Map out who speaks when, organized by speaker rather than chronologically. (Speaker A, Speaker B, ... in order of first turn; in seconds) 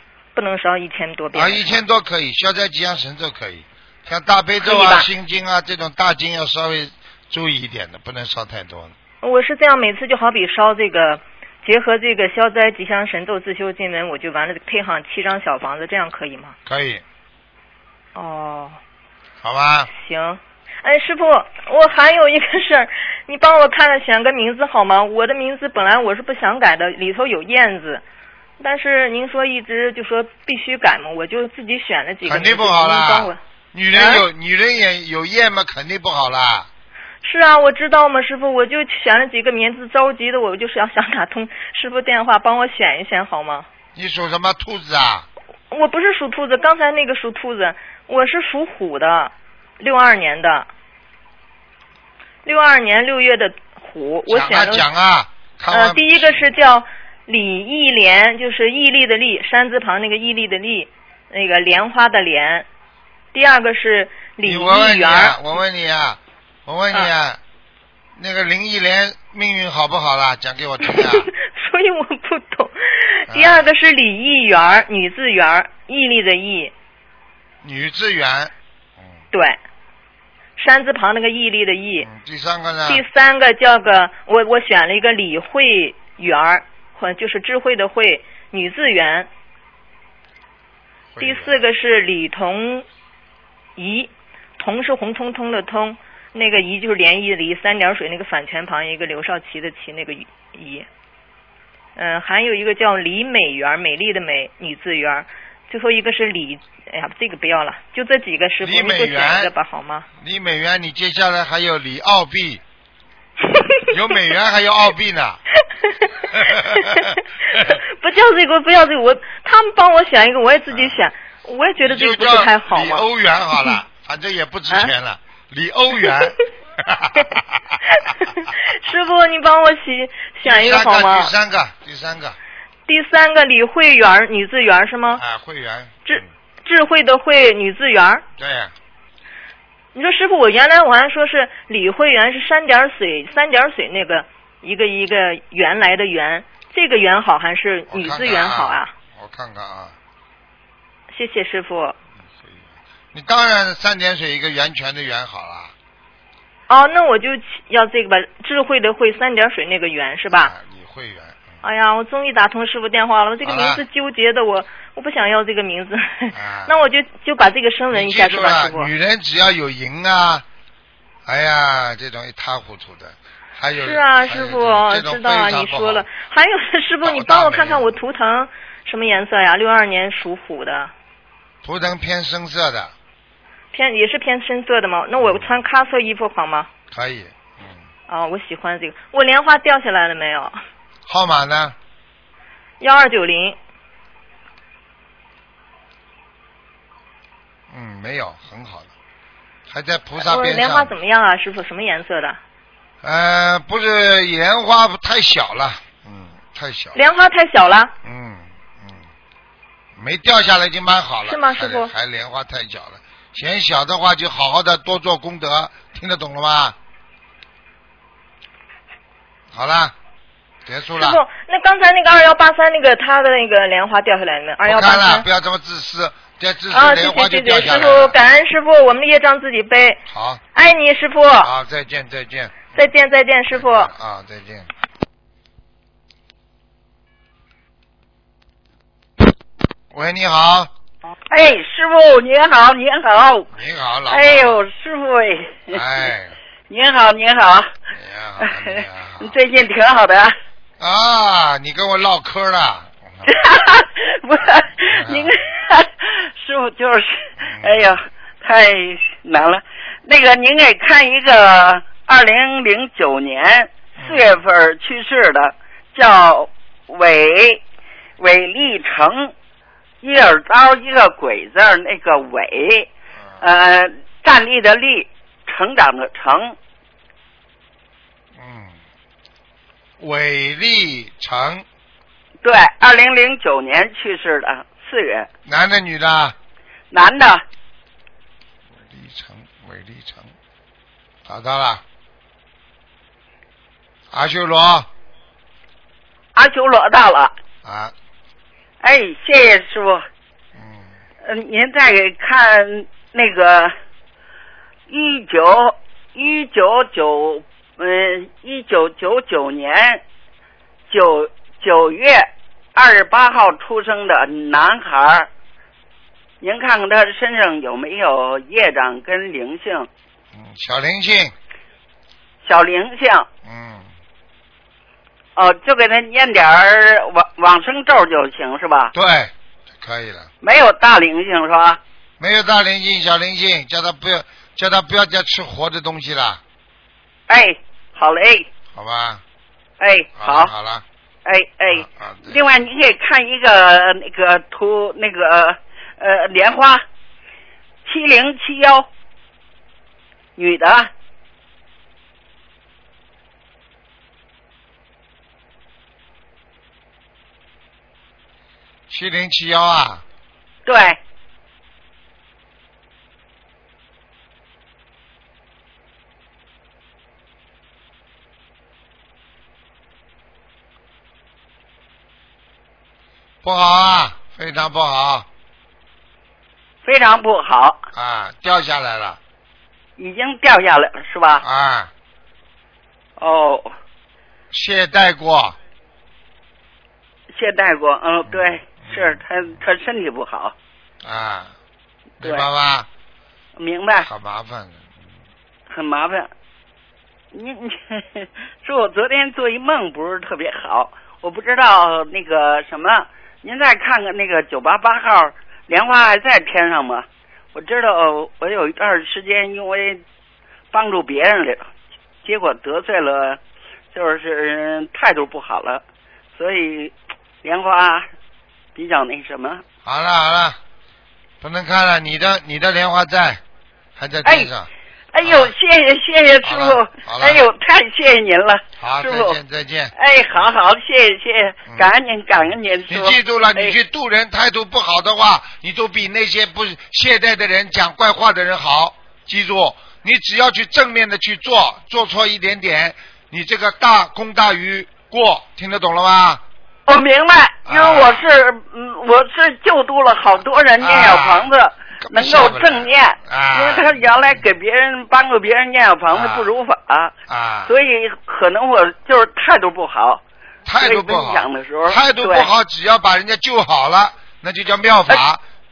Speaker A: 0.3-1.8, 4.6-5.1, 9.2-16.6, 18.1-18.8, 19.9-28.0, 28.6-33.4, 33.9-34.2, 37.2-43.7, 45.7-50.7, 52.5-54.9, 55.7-62.7, 63.3-65.4, 70.8-76.7, 79.3-79.6, 80.6-82.1, 82.9-89.3, 91.2-92.9, 93.8-100.9, 102.0-110.1, 113.5-113.9, 115.9-117.1, 117.9-123.8, 128.0-131.3, 132.9-135.2, 136.1-138.2, 139.9-148.9, 151.1-152.0, 156.7-160.5, 161.6-168.9, 173.8-180.9, 183.7-186.7, 188.1-190.6, 192.8-193.6, 200.2-202.4, 206.9-207.9, 211.2-211.9, 221.0-225.2, 226.7-230.0, 230.6-231.5, 232.7-233.9
Speaker B: 1.3-8.9, 16.7-17.0, 19.4-19.9, 32.2-36.7, 44.0-45.3, 54.3-56.4, 64.4-67.4, 68.2-71.3, 73.3-73.7, 77.6-78.5, 82.0-83.0, 91.1-91.6, 108.6-109.5, 110.2-112.6, 113.9-115.4, 116.3-117.8, 120.7-121.1, 121.8-127.8, 130.4-132.4, 135.2-136.3, 138.4-138.7, 147.9-150.0, 152.3-155.7, 160.3-161.6, 163.4-163.8, 166.3-166.8, 167.9-170.4, 171.3-176.1, 177.0-177.9, 181.6-182.9, 185.2-185.5, 186.9-187.8, 191.1-191.8, 197.7-198.9, 199.7-200.9, 203.0-207.0, 208.0-209.1, 210.0-216.8, 219.5-219.9, 220.7-221.2, 224.6-228.2, 230.1-230.4, 231.4-232.7, 233.5-234.7, 239.9-240.7, 243.5-244.6, 245.7-246.4, 247.9-249.3, 250.8-253.3, 254.9-255.4, 257.4-258.0, 264.0-264.3, 278.4-278.8, 280.0-281.6, 285.5-286.4, 288.8-290.3, 291.3-291.8, 294.1-294.9, 297.6-297.9, 300.6-300.9, 320.3-321.3, 323.4-323.9, 328.9-330.3, 332.2-336.4, 338.8-339.2, 340.2-340.8, 341.7-342.4, 358.9-360.1, 373.4-375.3, 377.9-379.2, 381.4-381.9, 384.5-385.6, 388.3-389.2, 391.0-391.5, 392.2-392.9, 394.0-394.8, 419.9-420.6, 421.4-423.4, 424.0-424.7, 425.2-425.5, 426.4-427.4, 428.8-429.9, 432.9-446.4, 447.7-448.3, 450.8-451.5, 452.0-454.0, 456.1-456.5, 457.3-457.7, 460.7-465.4
Speaker C: 241.3-243.5, 244.1-245.8, 246.7-247.7, 248.4-250.3, 253.2-267.6, 268.2-269.3, 270.0-272.9, 273.4-276.6, 282.4-285.3, 286.9-287.4, 296.4-297.3, 298.8-300.1, 301.2-303.7, 304.9-310.0, 310.9-315.3, 316.4-319.9, 322.4-323.3, 325.4-328.9, 330.4-331.8, 337.3-338.5, 339.8-340.5, 341.2-346.8, 347.9-348.9, 350.4-350.9, 360.7-361.0, 376.8-377.8, 380.0-381.4, 383.2-383.8, 387.3-390.5, 392.2-392.5, 393.6-394.1, 395.7-396.3, 397.3-410.0, 410.7-411.7, 412.2-413.4, 413.9-415.8, 416.4-418.1, 418.8-419.6, 425.1-429.4, 430.0-433.7, 446.9-457.1, 457.7-460.2, 460.8-462.5